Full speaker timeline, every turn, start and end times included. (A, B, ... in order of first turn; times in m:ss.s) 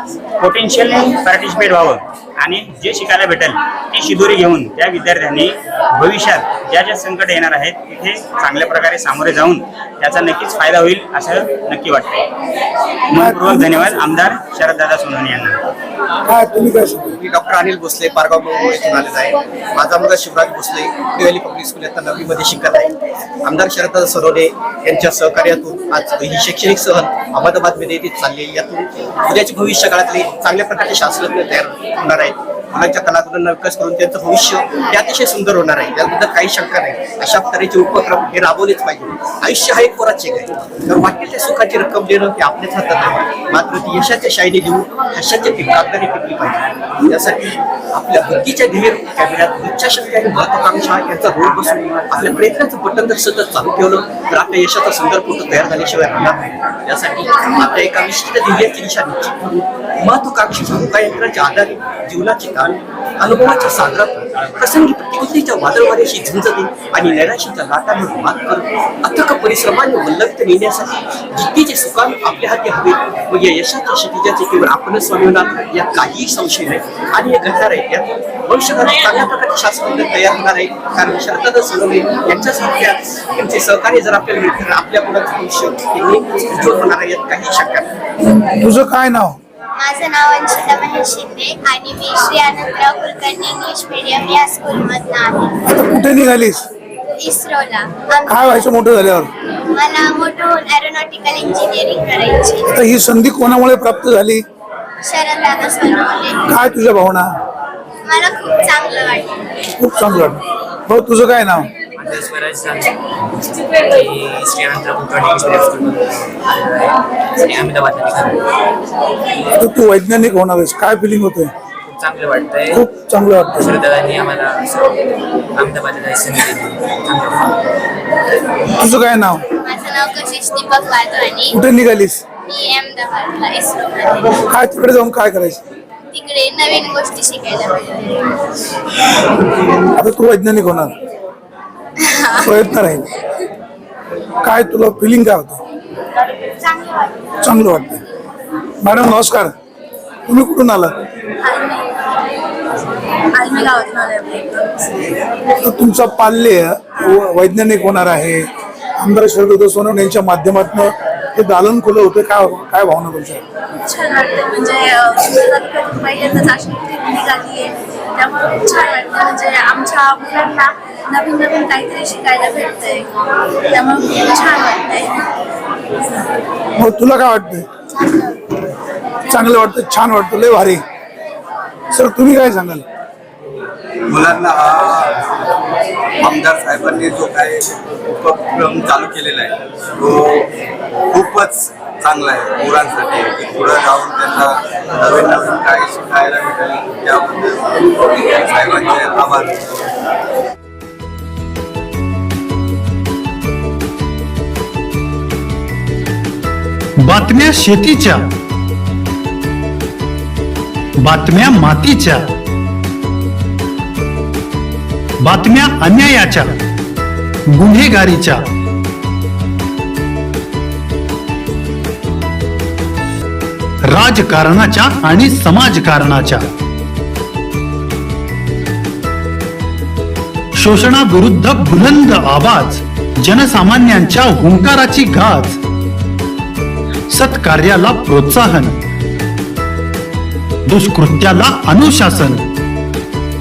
0:00.4-0:12.3 A
0:13.1-0:15.6 A
0:13.2-0:13.8 B
0:16.2-0:17.1 B
0:17.2-0:59.3 C
1:00.0-1:27.9 C
1:28.6-1:29.4 B
1:29.8-1:35.5 D
1:35.6-1:36.7 B
1:37.2-1:38.4 D
1:38.2-1:39.3 B
1:39.7-1:42.7 D
1:42.7-1:44.4 B
1:45.0-1:46.4 D
1:46.4-1:47.3 B
1:48.0-1:49.4 D
1:49.8-1:51.7 B
1:52.0-1:58.4 E
1:59.6-2:01.5 B
2:01.8-2:02.8 E
2:02.7-2:03.7 B
2:03.5-2:05.0 E
2:05.5-2:07.5 E
2:08.8-2:09.4 B
2:09.6-2:11.6 D
2:11.5-2:12.2 B
2:12.4-2:14.3 D
2:14.5-2:15.6 B
2:16.1-2:18.3 D
2:19.9-2:21.0 B
2:22.4-2:23.0 B
2:24.4-2:25.6 B
2:26.6-2:27.1 D
2:27.4-2:28.0 B
2:28.8-2:29.5 B
2:30.3-2:30.9 B
2:31.4-2:31.8 F
2:33.4-2:35.1 F
2:35.6-2:43.4 B
2:43.7-2:53.1 F
2:53.7-2:55.2 F
2:56.8-2:57.6 B
2:59.3-3:00.8 B
3:01.9-3:02.8 B
3:04.1-3:05.2 G
3:06.2-3:10.5 G
3:11.1-3:17.6 G
3:18.1-3:19.5 G
3:27.0-3:28.3 H
3:31.0-3:32.3 H
3:35.2-3:36.6 H
3:37.5-3:38.4 H
3:43.9-3:46.5 H
3:50.6-3:55.6 H
3:57.1-3:58.8 H
4:00.6-4:02.4 H